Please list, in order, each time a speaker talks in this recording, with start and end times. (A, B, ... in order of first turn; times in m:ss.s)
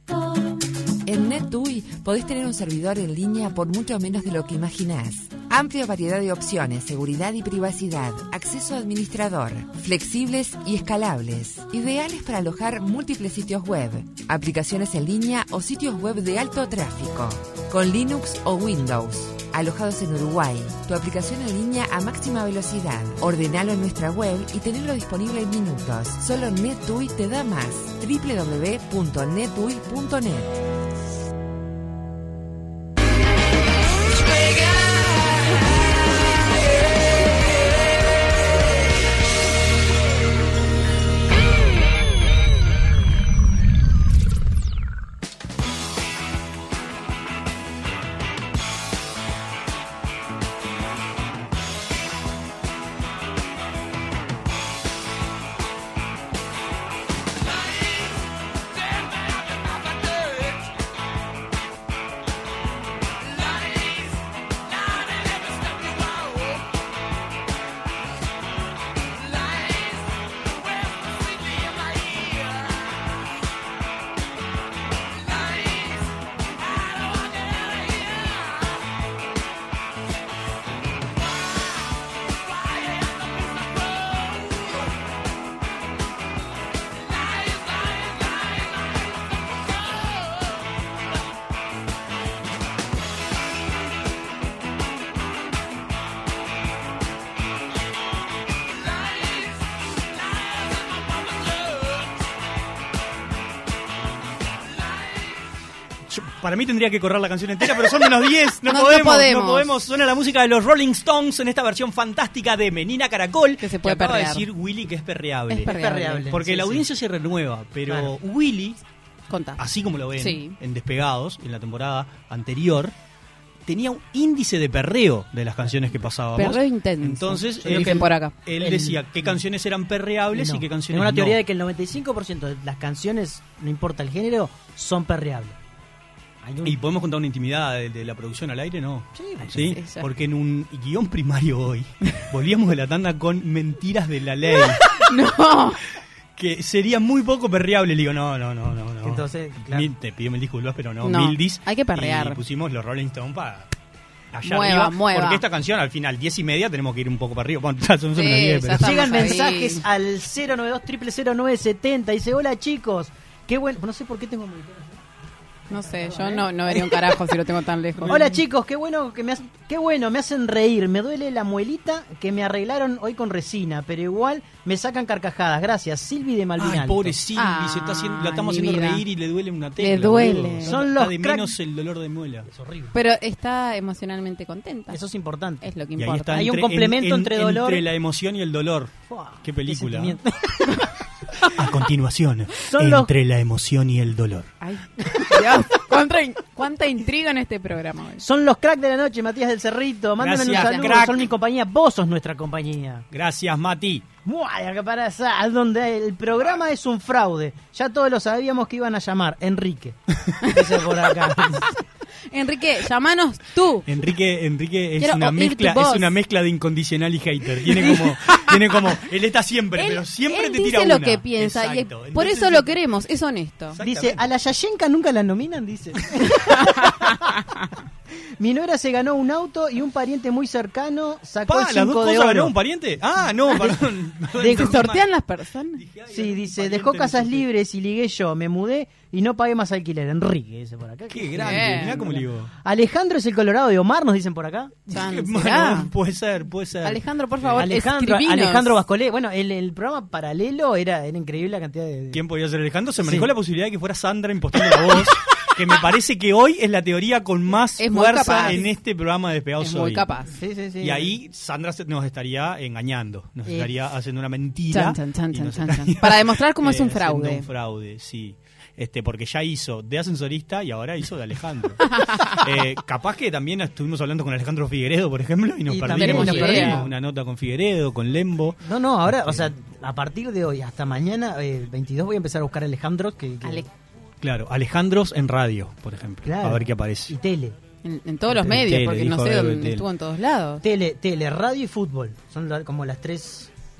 0:01.1-0:30.5 A
1:46.1-1:55.7 B
1:48.7-1:49.7 C
1:53.6-1:54.5 C
1:55.5-1:56.3 C
1:55.6-1:56.9 D
1:56.3-1:58.8 B
1:57.9-1:58.1 D
1:59.3-1:59.6 C
1:59.6-2:02.9 B
2:00.2-2:00.5 C
2:03.7-2:11.4 B
2:05.6-2:06.0 D
2:06.3-2:08.3 C
2:07.6-2:09.4 D
2:10.3-2:15.6 D
2:16.4-2:16.8 D
2:16.6-2:25.0 B
2:19.1-2:19.8 D
2:19.5-2:20.1 C
2:24.9-2:25.8 C
2:26.4-2:33.7 B
2:29.0-2:29.9 D
2:31.0-2:32.4 C
2:34.3-2:39.4 B
2:34.4-2:35.4 C
2:38.2-2:39.8 C
2:38.7-2:45.0 D
2:45.7-2:48.3 C
2:45.8-2:46.5 D
2:48.0-2:48.3 B
2:48.0-2:57.2 D
2:56.6-3:02.5 B
2:57.4-2:59.0 C
2:59.8-3:00.8 C
3:00.6-3:01.5 D
3:02.5-3:02.9 D
3:02.9-3:05.0 C
3:04.9-3:05.7 D
3:05.6-3:06.5 C
3:06.0-3:10.2 B
3:06.3-3:07.8 D
3:09.1-3:10.6 D
3:11.4-3:14.5 B
3:12.6-3:13.1 D
3:14.6-3:18.2 C
3:18.2-3:23.0 D
3:20.2-3:21.3 B
3:20.5-3:21.1 C
3:23.1-3:24.0 B
3:24.2-3:31.7 D
3:32.3-3:33.9 C
3:33.8-3:42.7 B
3:35.0-3:36.1 C
3:39.8-3:43.8 C
3:43.7-3:44.3 B
3:43.8-3:47.1 D
3:48.4-3:52.5 D
3:51.4-3:55.0 B
3:53.5-3:53.8 D
3:54.3-3:54.8 D
3:54.5-3:55.8 C
3:55.8-3:57.5 B
3:56.1-4:04.8 D
4:01.1-4:02.5 B
4:01.4-4:02.0 C
4:04.9-4:05.9 C
4:04.9-4:07.7 B
4:06.8-4:08.7 C
4:07.6-4:12.2 D
4:12.1-4:20.1 B
4:13.0-4:13.3 D
4:17.8-4:18.6 C
4:19.6-4:20.3 C
4:20.3-4:21.1 D
4:20.8-4:39.5 B
4:23.4-4:23.7 D
4:24.7-4:27.4 C
4:31.9-4:32.4 C
4:35.7-4:36.9 D
4:35.9-4:36.8 C
4:38.6-4:43.7 D
4:44.2-4:47.1 B
4:46.2-4:47.6 D
4:47.8-4:50.6 C
4:48.3-4:48.8 D
4:48.4-4:49.8 B
4:50.6-4:53.5 D